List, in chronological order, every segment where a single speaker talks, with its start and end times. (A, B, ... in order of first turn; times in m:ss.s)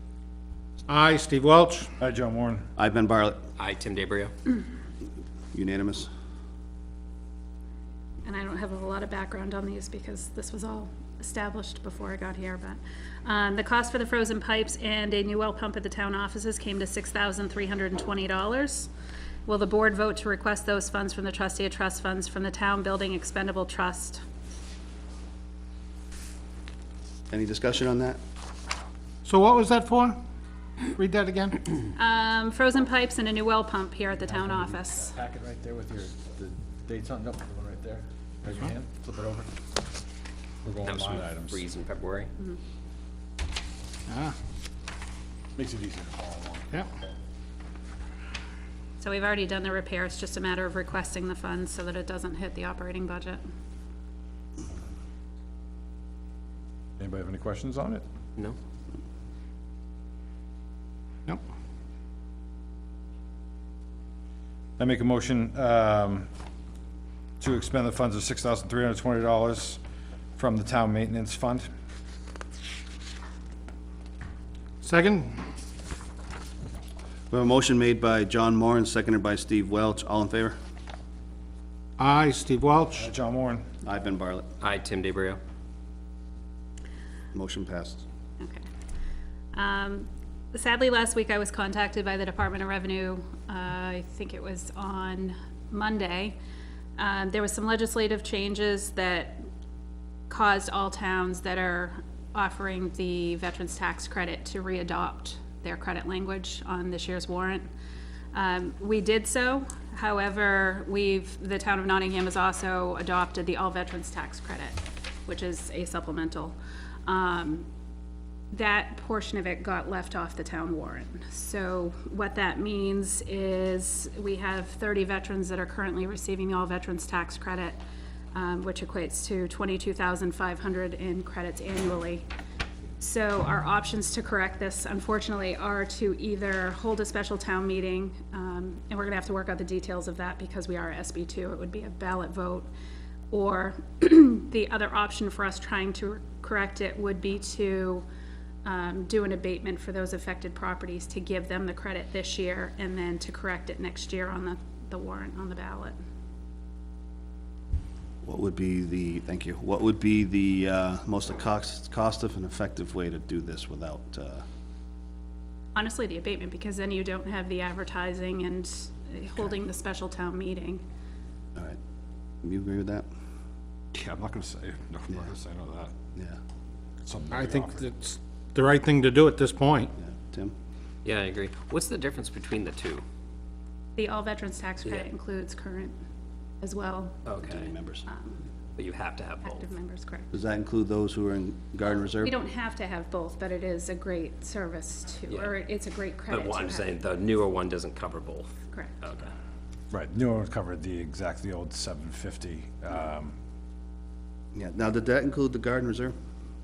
0:00.9-0:01.9 A
0:02.0-0:02.7 B
0:02.8-0:03.4 C
0:03.6-0:04.3 D
0:05.5-0:06.1 C
0:08.2-0:18.9 E
0:19.4-0:24.2 E
0:27.3-0:28.2 C
0:29.2-0:30.2 A
0:30.8-0:31.6 A
0:31.9-0:35.2 E
0:35.1-0:39.4 B
0:40.6-0:41.6 B
0:40.8-0:42.3 D
0:44.1-0:44.3 A
0:45.6-0:46.7 B
0:49.0-0:53.4 E
0:57.0-0:58.0 B
1:04.8-1:06.3 B
1:07.4-1:09.8 B
1:10.4-1:11.7 B
1:14.8-1:15.4 A
1:17.3-1:20.6 C
1:22.0-1:23.0 A
1:23.0-1:23.7 B
1:23.8-1:24.5 C
1:24.6-1:25.4 D
1:27.3-1:28.0 C
1:29.5-1:36.4 E
1:37.0-1:39.4 E
1:40.3-1:47.7 E
1:48.3-1:57.6 E
1:58.5-2:07.8 E
2:08.3-2:12.2 E
2:13.0-2:22.7 E
2:23.3-2:28.0 E
2:28.6-2:36.0 E
2:38.2-2:44.4 C
2:45.7-2:50.8 E
2:52.4-2:53.0 C
2:53.9-2:55.9 B
2:57.0-2:57.8 B
2:57.3-2:59.9 A
3:00.0-3:00.5 C
3:01.0-3:03.0 D
3:04.0-3:05.9 E
3:06.6-3:07.2 E
3:07.2-3:07.7 D
3:07.4-3:08.0 C
3:08.0-3:08.4 E
3:08.8-3:09.6 D
3:09.4-3:10.3 E
3:10.3-3:12.3 C
3:12.2-3:16.9 E
3:15.3-3:15.6 D
3:16.3-3:19.3 D
3:18.7-3:19.0 E
3:19.9-3:23.3 B
3:24.5-3:26.1 C